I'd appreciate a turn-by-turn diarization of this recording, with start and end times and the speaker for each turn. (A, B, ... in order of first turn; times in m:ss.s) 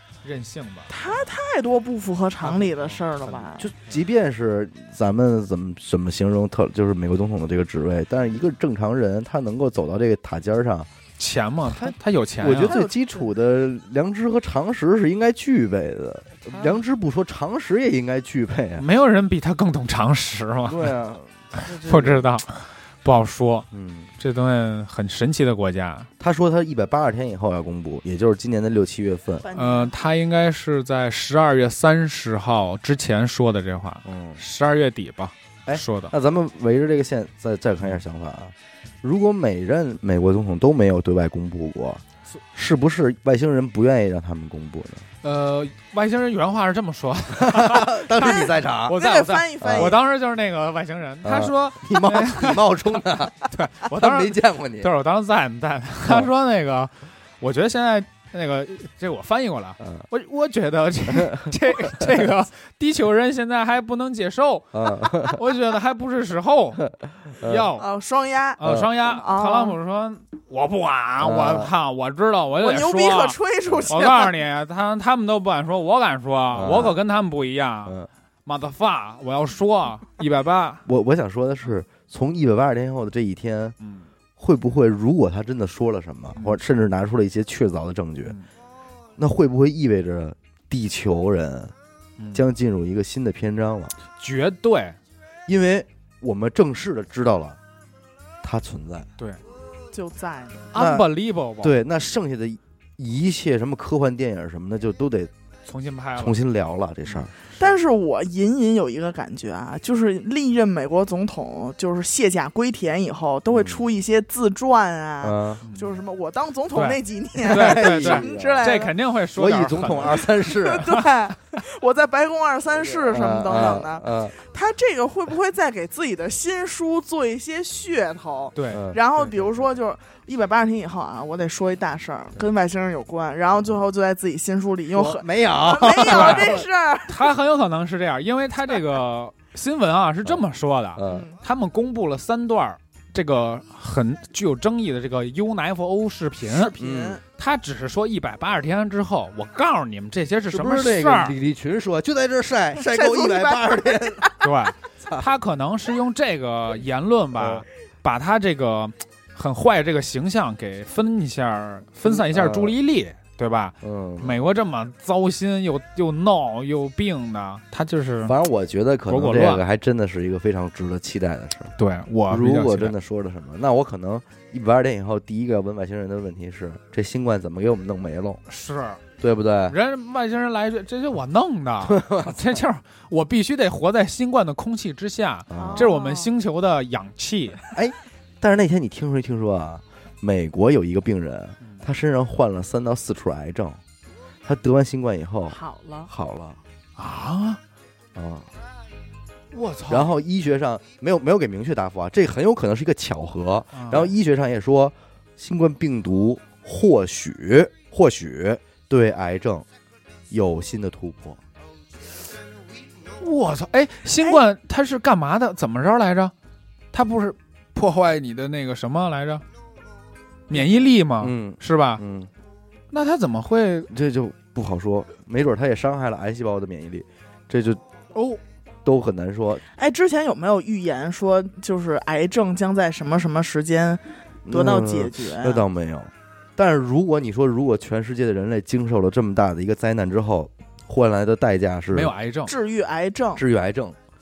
0:00.2-0:00.9 A
0:00.9-0:03.7 B
0:02.4-0:03.4 A
0:03.6-0:10.9 C
0:11.2-0:12.8 A
0:11.7-0:18.9 C
0:12.6-0:13.3 B
0:16.5-0:16.8 A
0:18.8-0:20.9 A
0:20.7-0:22.3 C
0:21.6-0:23.7 A
0:23.7-0:24.1 C
0:24.2-0:26.1 A
0:26.2-0:29.4 C
0:29.4-0:29.9 B
0:29.6-0:36.1 A
0:34.0-0:34.4 C
0:35.7-0:42.0 C
0:42.5-0:45.1 C
0:45.2-1:06.9 A
0:47.3-0:49.0 C
0:48.2-0:50.0 B
0:49.6-0:50.0 C
0:51.2-0:54.9 C
1:01.1-1:02.2 C
1:04.7-1:05.4 C
1:07.4-1:07.9 A
1:07.4-1:07.7 C
1:07.8-1:09.8 B
1:08.6-1:20.8 A
1:08.6-1:08.9 C
1:11.2-1:11.7 C
1:12.6-1:14.3 B
1:16.5-1:17.0 C
1:20.8-1:23.8 C
1:23.8-1:24.1 A
1:24.4-1:28.4 C
1:29.2-1:31.7 C
1:32.2-1:32.4 A
1:32.3-1:34.0 C
1:34.2-1:35.0 A
1:35.5-1:37.6 C
1:38.4-1:39.1 C
1:39.9-1:40.8 B
1:40.7-1:41.8 A
1:40.8-1:45.3 C
1:45.7-1:46.4 A
1:46.2-1:47.3 C
1:47.1-1:47.7 A
1:47.6-1:58.9 B
1:53.5-1:53.8 C
1:55.2-1:55.6 C
1:55.6-1:56.0 A
1:56.7-2:01.1 A
1:57.4-1:58.7 C
1:59.3-2:01.0 C
2:00.4-2:17.3 B
2:02.8-2:04.4 C
2:08.6-2:09.4 A
2:08.7-2:09.0 C
2:14.9-2:16.7 C
2:16.0-2:26.7 A
2:21.0-2:21.3 C
2:21.0-2:21.4 B
2:26.4-2:27.2 B
2:26.8-2:27.2 C
2:27.4-2:31.4 A
2:30.5-2:34.3 C
2:32.8-2:34.4 B
2:34.4-2:48.4 A
2:35.0-2:35.3 C
2:37.4-2:37.6 C
2:42.0-2:42.8 C
2:43.8-2:44.4 C
2:48.2-2:51.7 C
2:49.1-2:49.6 A
2:51.8-2:52.9 A
2:52.3-2:58.4 C
2:58.5-2:59.0 A
2:59.2-2:59.8 C
2:59.7-3:07.6 A
3:01.8-3:02.6 C
3:05.5-3:05.9 C
3:05.6-3:06.3 B
3:07.7-3:13.8 C
3:14.4-3:15.6 C
3:15.5-3:16.1 B
3:16.1-3:16.6 C
3:17.0-3:17.6 A
3:18.2-3:18.5 C
3:19.5-3:20.1 A
3:19.9-3:29.7 C
3:23.7-3:24.1 A
3:30.3-3:31.4 C
3:33.2-3:36.3 A
3:36.9-3:39.4 A
3:40.5-3:42.0 A
3:41.2-3:42.3 C
3:42.9-3:43.9 A
3:43.9-3:47.8 C
3:48.1-3:48.4 A
3:48.8-3:49.6 C
3:49.7-3:55.6 B
3:54.5-4:02.1 C
4:01.9-4:02.5 A
4:02.5-4:03.4 B
4:03.4-4:04.0 C